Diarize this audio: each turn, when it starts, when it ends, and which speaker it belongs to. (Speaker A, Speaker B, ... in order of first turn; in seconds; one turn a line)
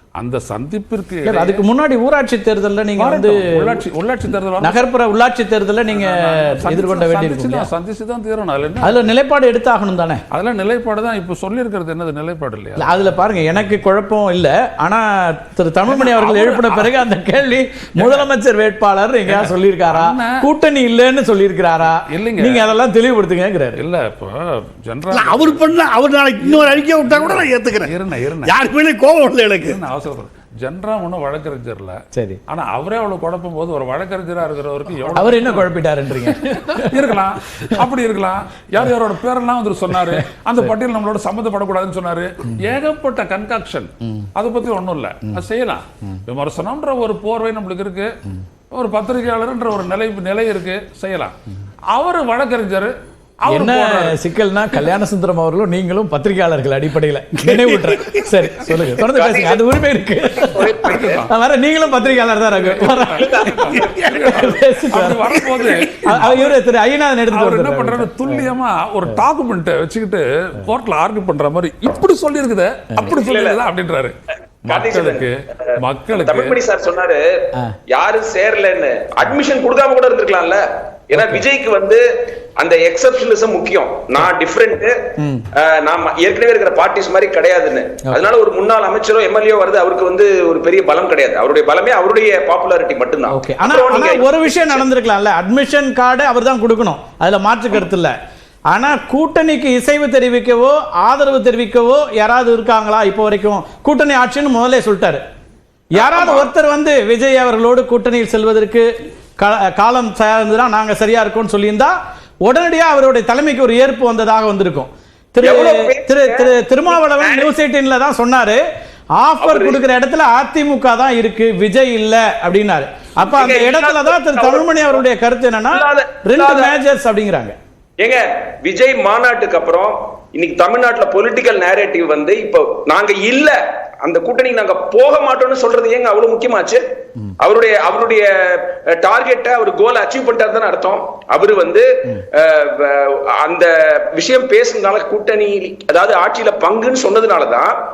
Speaker A: 0.2-1.6
Speaker B: 1.2-3.8
Speaker A: 3.0-4.8
Speaker B: 4.6-7.7
Speaker A: 5.9-9.0
Speaker B: 8.8-10.2
Speaker A: 10.3-12.9
Speaker B: 12.8-23.8
Speaker A: 15.9-16.9
Speaker A: 18.0-18.2
Speaker A: 19.3-20.4
Speaker A: 22.0-22.7
Speaker A: 23.8-25.8
Speaker C: 25.1-27.9
Speaker A: 26.5-28.6
Speaker C: 28.4-29.8
Speaker A: 29.6-35.7
Speaker B: 32.1-32.4
Speaker B: 35.1-37.2
Speaker A: 36.2-48.1
Speaker A: 48.7-51.4
Speaker A: 51.9-54.2
Speaker B: 53.5-65.3
Speaker C: 57.5-58.2
Speaker D: 59.0-59.7
Speaker D: 60.4-61.2
Speaker A: 60.8-61.3
Speaker A: 62.5-66.6
Speaker D: 63.1-64.1
Speaker C: 63.8-64.3
Speaker C: 65.3-65.9
Speaker B: 66.0-68.5
Speaker A: 67.3-74.1
Speaker D: 73.0-73.6
Speaker A: 74.6-76.5
Speaker D: 74.7-75.3
Speaker D: 76.1-82.0
Speaker B: 81.2-81.4
Speaker D: 82.6-85.0
Speaker B: 85.2-85.4
Speaker D: 85.6-94.8
Speaker B: 93.3-98.1
Speaker B: 98.7-105.2
Speaker B: 105.9-108.9
Speaker D: 106.0-106.5
Speaker B: 109.4-118.6
Speaker D: 115.4-117.5
Speaker B: 119.2-127.5
Speaker D: 119.4-119.8
Speaker D: 123.2-125.0
Speaker D: 125.7-126.8
Speaker D: 128.0-136.8
Speaker D: 137.4-147.7